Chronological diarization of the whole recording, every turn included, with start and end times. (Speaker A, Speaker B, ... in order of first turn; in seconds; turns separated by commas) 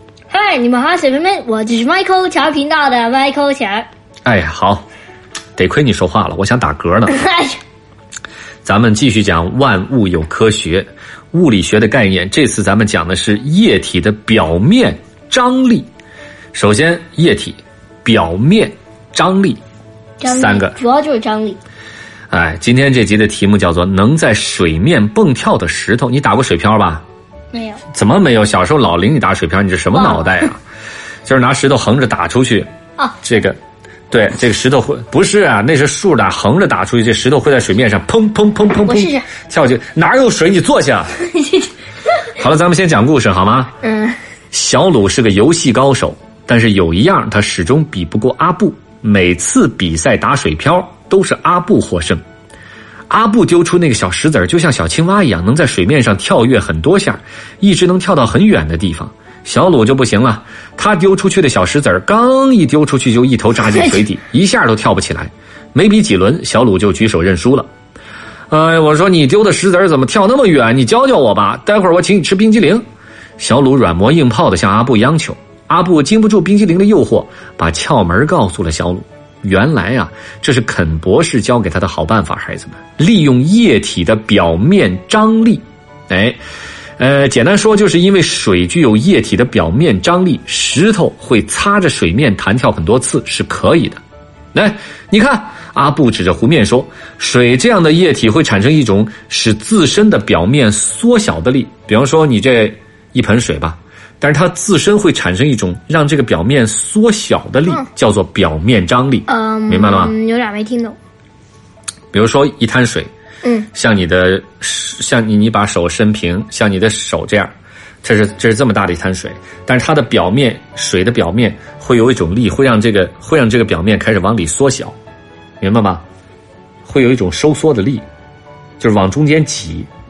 Speaker A: 0.3-3.9, Speaker B: 4.2-4.8, Speaker B: 5.6-7.2, Speaker A: 7.1-7.6, Speaker B: 8.6-15.9, Speaker B: 16.5-19.6, Speaker A: 20.2-21.6, Speaker B: 20.2-20.8, Speaker B: 22.3-27.0, Speaker A: 27.5-27.8, Speaker B: 27.9-30.6, Speaker A: 29.9-30.4, Speaker B: 31.2-32.7, Speaker B: 33.2-33.6, Speaker B: 34.1-41.2, Speaker A: 38.8-39.3, Speaker A: 41.3-41.7, Speaker B: 42.4-43.7, Speaker A: 43.8-44.2, Speaker B: 44.5-52.2, Speaker B: 53.1-67.7, Speaker A: 63.7-64.0, Speaker B: 68.5-72.8, Speaker B: 73.4-86.4, Speaker B: 87.0-94.0, Speaker B: 94.5-110.1, Speaker A: 109.3-111.0, Speaker B: 112.1-113.1, Speaker A: 113.4-113.7, Speaker B: 113.7-117.5, Speaker B: 118.0-125.0, Speaker B: 125.6-126.0, Speaker B: 126.8-128.0, Speaker B: 128.8-129.9